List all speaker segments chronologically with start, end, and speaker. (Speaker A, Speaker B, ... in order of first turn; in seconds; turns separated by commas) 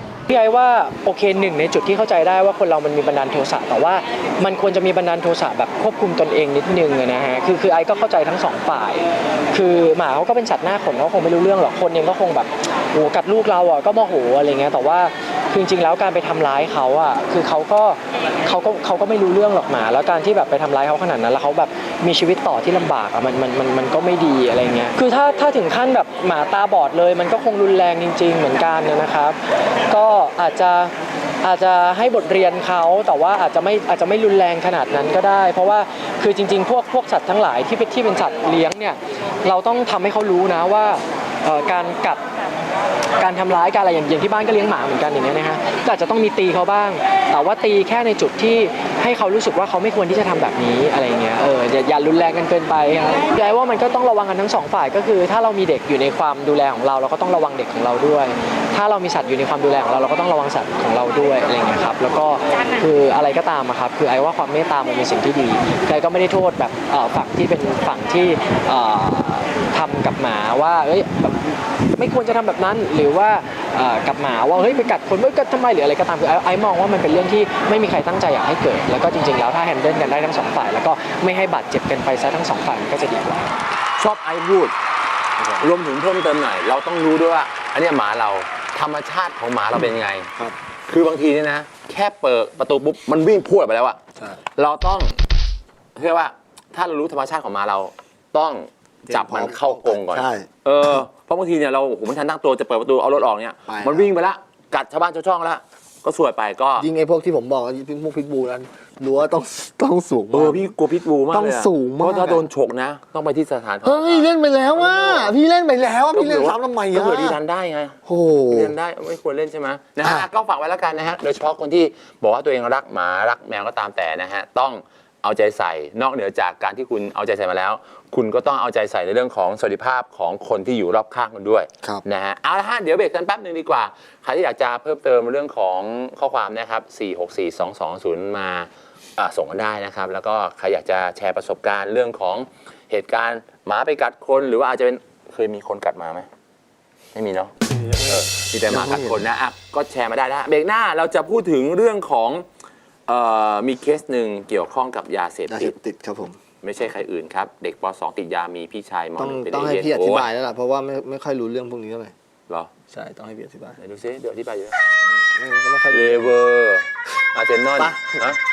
Speaker A: 0.3-42.2, Speaker A: 43.2-83.5, Speaker B: 84.0-84.7, Speaker C: 85.4-85.6, Speaker B: 85.6-90.3, Speaker B: 90.9-94.0, Speaker B: 94.5-95.2, Speaker B: 96.0-106.9, Speaker C: 99.1-100.5, Speaker C: 103.7-104.1, Speaker C: 106.8-110.7, Speaker B: 110.3-115.3, Speaker C: 111.3-112.4, Speaker C: 113.8-117.4, Speaker B: 116.1-146.3, Speaker C: 118.0-118.7, Speaker B: 147.1-147.5, Speaker C: 147.7-149.2, Speaker B: 148.1-152.4, Speaker B: 153.1-155.7, Speaker C: 155.5-156.4, Speaker B: 156.6-160.3, Speaker C: 159.2-162.1, Speaker C: 162.9-163.8, Speaker B: 163.8-164.8, Speaker C: 165.0-166.3, Speaker B: 165.9-168.4, Speaker C: 167.8-168.2